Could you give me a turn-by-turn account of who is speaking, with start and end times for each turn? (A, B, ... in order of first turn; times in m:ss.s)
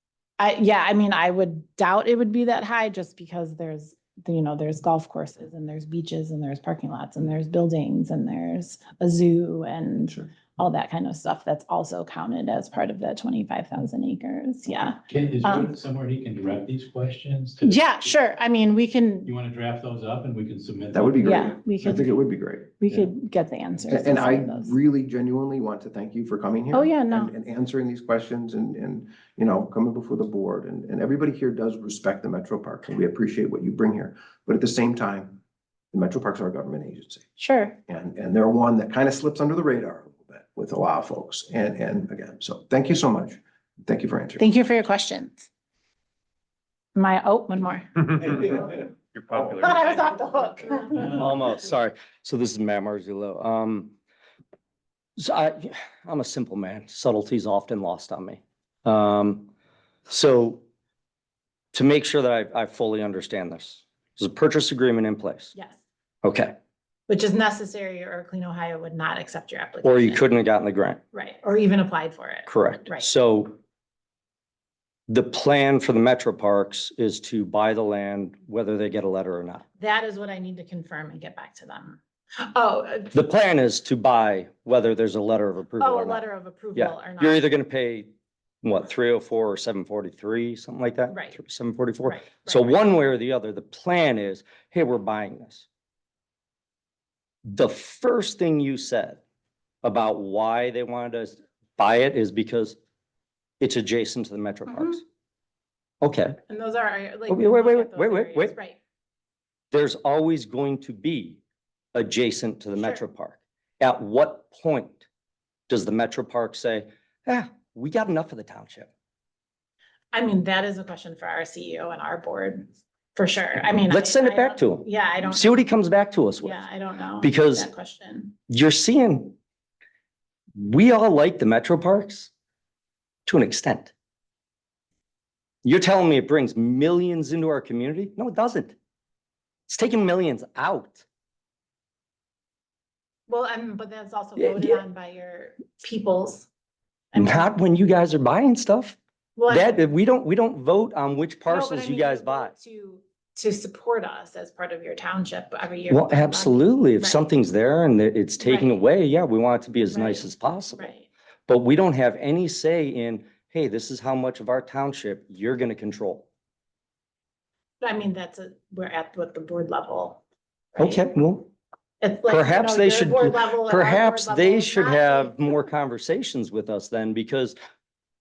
0:00.4-0:15.7 A
0:15.1-0:17.8 B
0:17.6-0:19.3 A
0:19.2-0:21.4 B
0:20.9-0:23.1 C
0:21.2-0:22.0 A
0:22.8-0:24.7 A
0:23.8-0:35.4 C
0:26.7-0:27.3 A
0:35.9-0:37.3 C
0:37.4-0:37.8 A
0:37.9-0:44.5 C
0:44.4-0:45.5 A
0:46.9-0:48.8 A
0:49.5-0:51.2 A
0:51.0-0:53.9 D
0:55.2-0:59.5 D
1:00.1-1:00.6 D
1:01.7-1:05.5 D
1:05.5-1:05.8 A
1:06.2-1:06.5 D
1:07.1-1:10.2 A
1:09.8-1:11.0 D
1:11.1-1:13.1 A
1:12.5-1:13.5 D
1:15.1-1:19.6 D
1:19.8-1:23.1 A
1:23.1-1:26.2 D
1:25.8-1:27.5 A
1:26.7-1:28.1 D
1:28.6-1:35.6 D
1:31.1-1:31.4 A
1:32.0-1:32.8 A
1:37.5-1:39.2 D
1:39.8-1:42.8 D
1:43.6-1:45.0 D
1:46.0-1:46.4 D
1:46.5-1:48.8 A
1:47.3-1:48.5 D
1:49.7-1:51.4 D
1:51.9-1:55.0 D
1:55.7-1:58.9 D
2:00.1-2:05.7 A
2:03.9-2:06.6 D
2:06.4-2:08.3 A
2:07.2-2:07.7 D
2:08.5-2:09.3 D
2:10.6-2:12.3 D
2:13.2-2:13.9 D
2:15.6-2:18.7 D
2:19.7-2:21.0 D
2:23.3-2:26.5 A
2:24.4-2:24.8 D
2:27.1-2:27.5 A
2:27.1-2:29.0 D
2:29.4-2:29.7 A
2:29.5-2:32.5 D
2:31.5-2:37.2 A
2:35.9-2:40.9 D
2:38.4-2:38.7 A
2:39.9-2:41.1 A
2:41.5-2:46.3 D
2:47.8-2:50.2 A
2:50.7-2:51.0 A
2:50.8-2:51.5 D
2:52.0-2:55.4 A
2:52.3-2:57.5 D